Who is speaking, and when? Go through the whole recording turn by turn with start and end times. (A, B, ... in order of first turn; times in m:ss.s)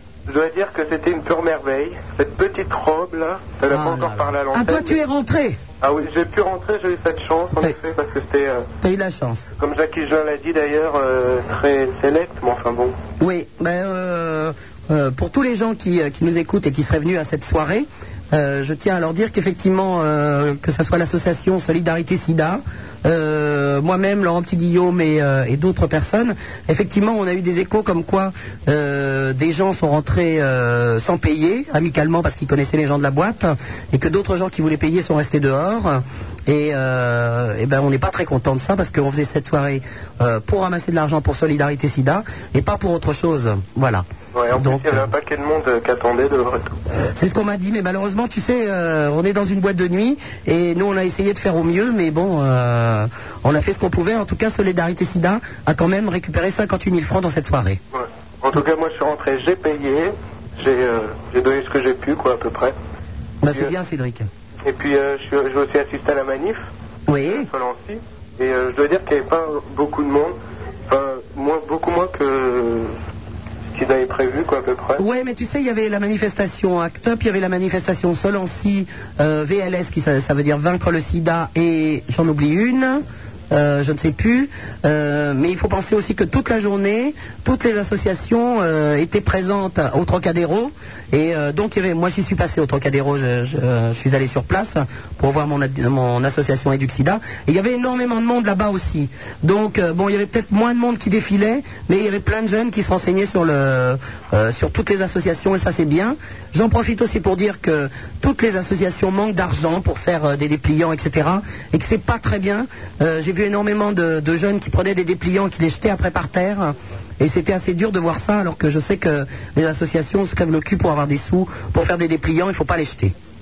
0:00.3-0:05.0 A
0:03.7-0:05.6 B
0:05.8-0:08.7 A
0:08.8-0:09.5 B
0:09.6-0:13.0 A
0:13.2-0:44.0 B
0:44.3-0:46.8 A
0:44.6-0:45.0 B
0:47.2-0:57.8 B
0:57.9-1:02.7 A
1:03.4-1:04.3 B
1:04.6-1:06.6 A
1:07.1-1:07.5 B
1:07.2-1:10.3 A
1:10.9-1:12.9 A
1:13.7-1:15.0 A
1:15.0-2:03.1 B